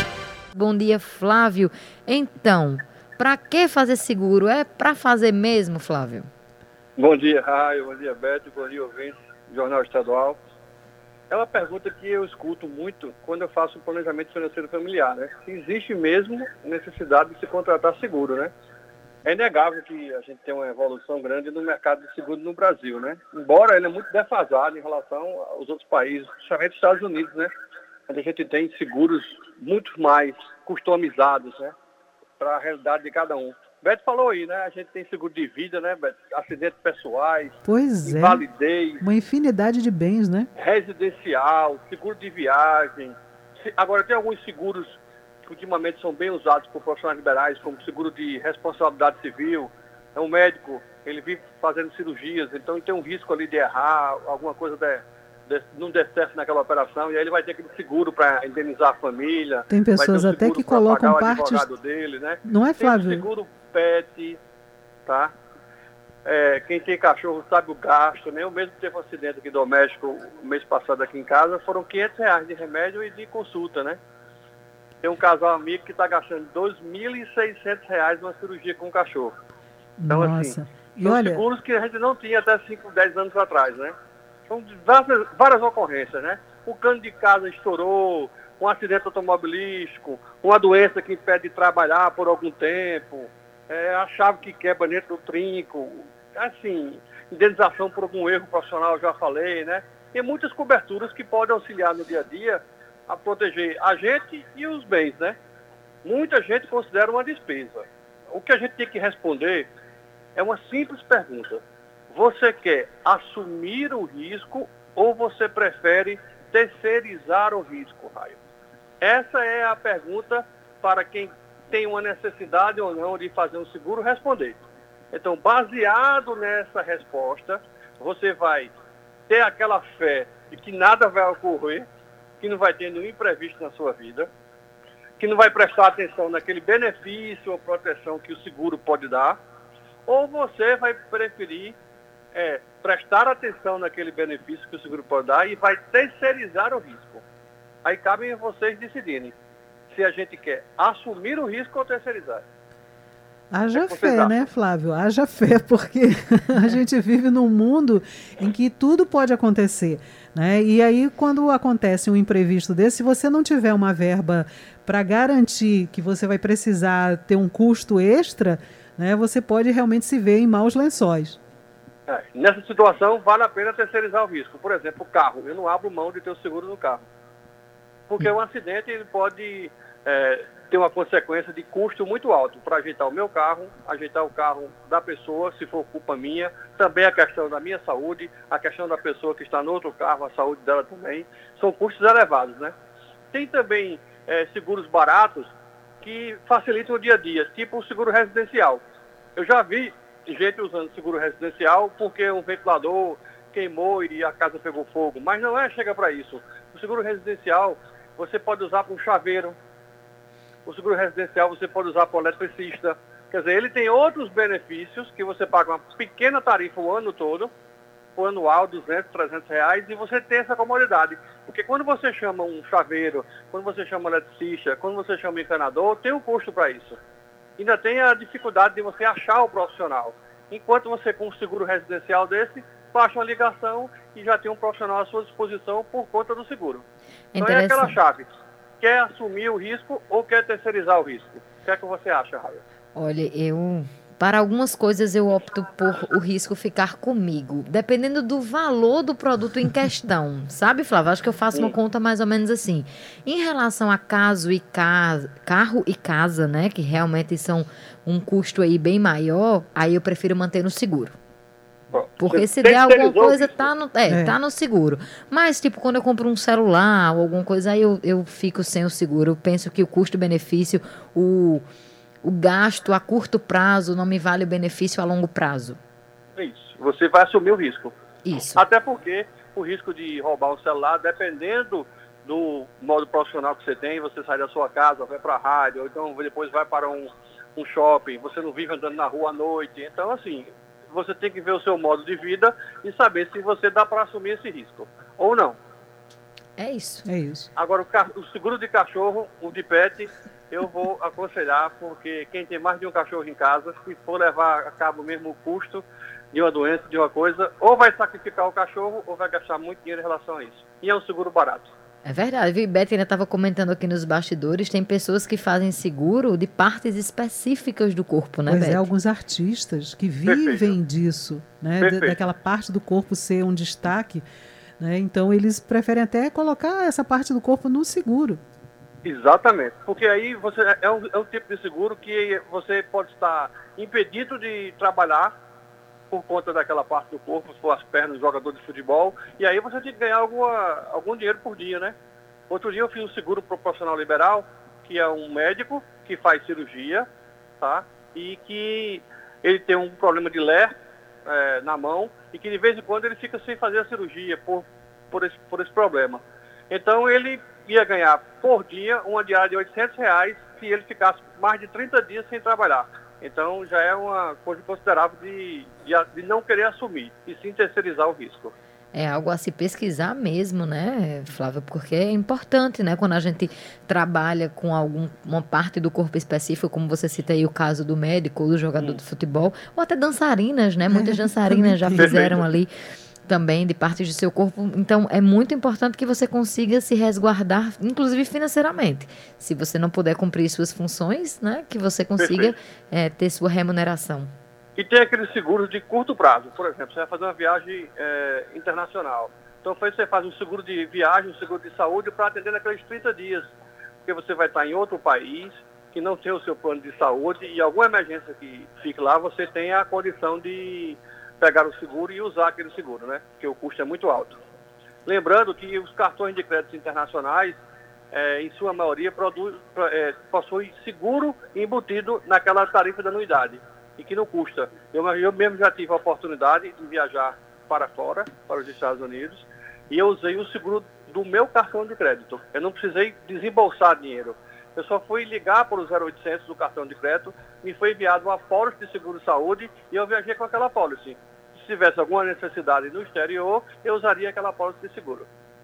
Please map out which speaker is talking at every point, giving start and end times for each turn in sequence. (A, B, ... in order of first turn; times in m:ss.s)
0:00.5-0:06.3 A
0:07.0-0:10.4 B
0:11.3-0:18.5 B
0:19.2-0:27.5 B
0:28.1-0:31.7 B
0:32.4-0:39.0 B
0:37.7-0:38.4 C
0:39.0-0:40.5 C
0:40.6-1:04.4 B
0:59.7-1:01.7 C
1:02.4-1:03.2 C
1:05.0-1:05.3 B
1:06.2-1:14.0 B
1:15.0-1:19.3 B
1:20.0-1:21.4 C
1:20.1-1:23.9 B
1:24.5-1:45.4 B
1:46.0-1:49.7 B
1:50.4-1:58.4 B
1:59.0-2:04.6 B
2:05.1-2:08.7 B
2:09.3-2:11.8 B
2:12.4-2:14.3 B
2:15.2-2:19.4 B
2:20.1-2:21.8 B
2:22.3-2:27.2 B
2:27.8-2:29.3 B
2:29.9-2:32.4 B
2:33.5-2:51.4 C
2:33.7-2:34.5 B
2:52.1-2:57.0 B
2:58.1-3:12.7 B
3:13.3-3:18.8 B
3:19.4-3:29.6 B
3:30.7-3:37.5 B
3:38.2-3:47.0 B
3:47.6-3:56.8 B
3:57.4-3:58.0 A
3:57.4-3:58.3 B
3:58.8-4:02.6 B
4:03.0-4:21.2 A
4:21.9-4:23.7 B
4:22.2-4:31.6 A
4:24.1-4:24.4 C
4:32.2-4:35.8 A
4:36.4-4:38.0 B
4:38.2-4:38.6 A
4:38.5-4:55.6 B
4:56.6-4:57.1 A
4:57.1-4:57.5 C
4:57.6-5:11.7 B
5:12.0-5:18.9 A
5:18.5-5:24.3 C
5:20.3-5:20.8 B
5:21.8-5:22.2 B
5:24.8-5:28.4 C
5:29.0-5:35.3 B
5:36.1-5:41.9 B
5:42.5-5:47.0 B
5:47.6-5:50.7 B
5:51.3-6:08.6 B
6:08.9-6:22.7 A
6:20.9-6:22.1 C
6:22.0-6:22.5 B
6:23.3-6:34.3 A
6:32.2-6:32.5 B
6:34.8-6:43.5 B
6:44.1-6:54.4 B
6:55.1-6:57.6 B
6:58.1-7:25.3 B